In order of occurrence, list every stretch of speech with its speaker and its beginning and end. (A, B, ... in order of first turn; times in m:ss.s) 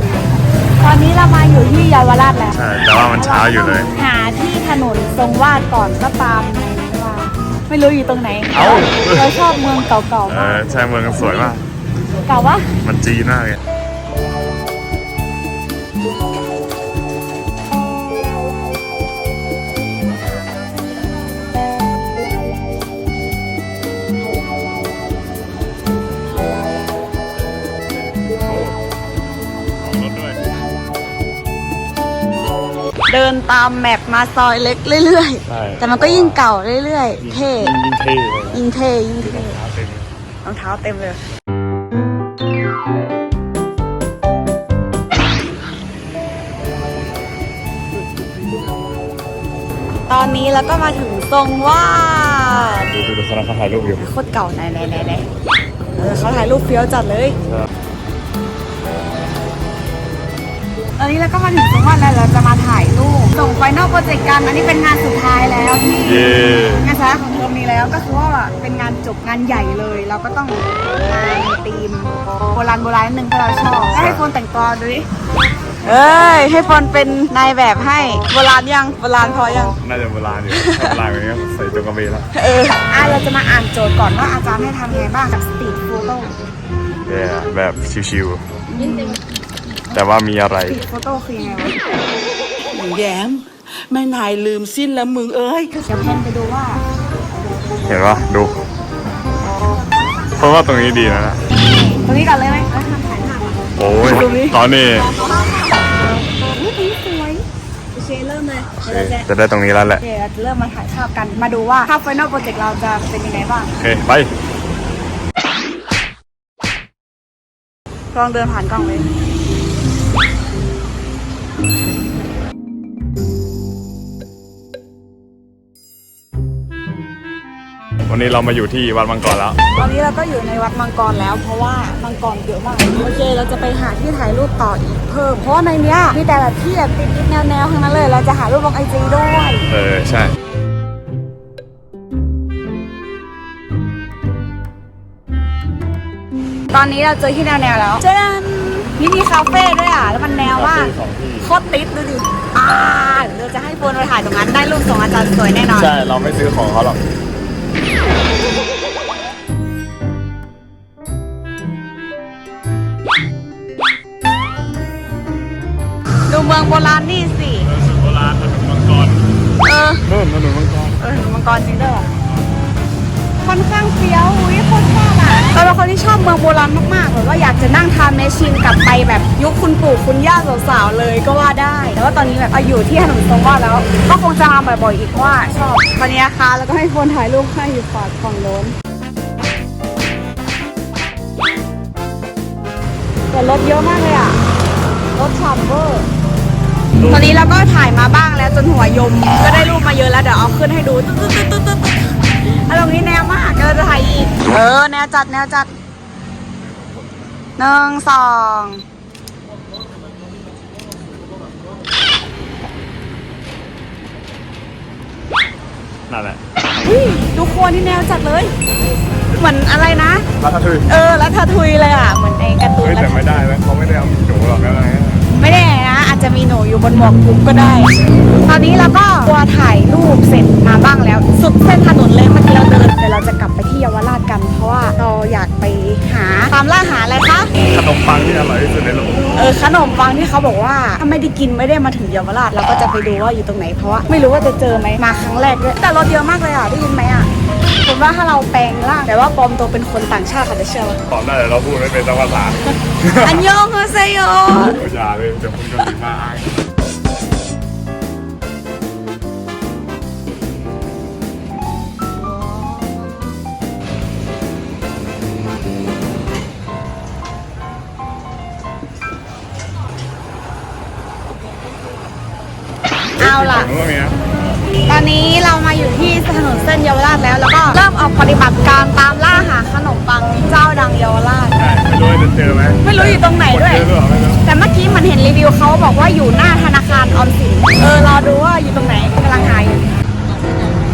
0:00.8-0:10.6 A
0:02.5-0:03.9 B
0:08.5-0:09.3 B
0:10.2-0:11.6 B
0:12.2-0:12.8 A
0:12.8-0:13.6 B
0:28.4-0:28.8 B
0:29.8-0:30.4 B
0:33.1-0:37.7 A
0:35.5-0:36.4 B
0:37.2-0:38.6 B
0:38.5-0:39.6 A
0:39.2-0:40.1 B
0:40.4-0:41.2 A
0:50.1-0:52.9 A
0:52.9-0:54.1 B
0:54.0-0:55.2 A
0:55.9-0:57.4 A
1:01.0-1:15.0 A
1:06.0-1:06.9 B
1:13.9-1:14.2 B
1:15.8-1:19.8 A
1:19.8-1:22.3 B
1:20.5-1:21.0 A
1:22.3-1:26.4 A
1:27.1-1:28.4 B
1:28.7-1:29.2 A
1:29.9-1:30.8 B
1:30.6-1:31.8 A
1:32.7-1:35.8 C
1:35.8-1:36.8 A
1:37.8-1:38.6 B
1:40.4-1:41.4 B
1:41.5-1:49.2 A
1:43.8-1:45.1 B
1:48.8-1:50.0 B
1:50.0-1:53.7 A
1:53.7-1:54.3 B
1:58.1-1:59.1 A
2:08.1-2:09.6 B
2:09.7-2:19.7 A
2:19.7-2:20.3 B
2:26.7-2:35.9 A
2:30.5-2:31.5 B
2:35.7-2:37.0 B
2:46.3-2:47.7 A
2:47.6-2:49.2 B
2:49.6-2:50.0 A
2:50.0-2:51.0 B
2:51.0-2:52.1 A
2:52.0-2:52.4 B
2:53.4-3:08.7 A
3:13.3-3:14.4 A
3:15.1-3:16.1 A
3:17.0-3:25.7 A
3:27.6-3:28.8 A
3:36.1-3:37.1 B
3:36.8-3:38.5 A
3:39.3-3:40.3 A
3:40.4-3:40.9 B
3:40.8-3:43.4 A
3:42.8-3:45.3 B
3:45.3-3:57.5 A
3:57.7-3:59.5 B
3:59.3-4:07.3 A
4:07.8-4:11.0 A
4:11.1-4:13.5 B
4:13.2-4:14.8 A
4:14.5-4:16.5 B
4:33.2-4:33.7 A
4:33.2-4:34.2 B
4:34.8-4:41.6 A
4:41.6-4:44.4 B
4:42.8-4:43.9 A
4:44.4-4:50.0 A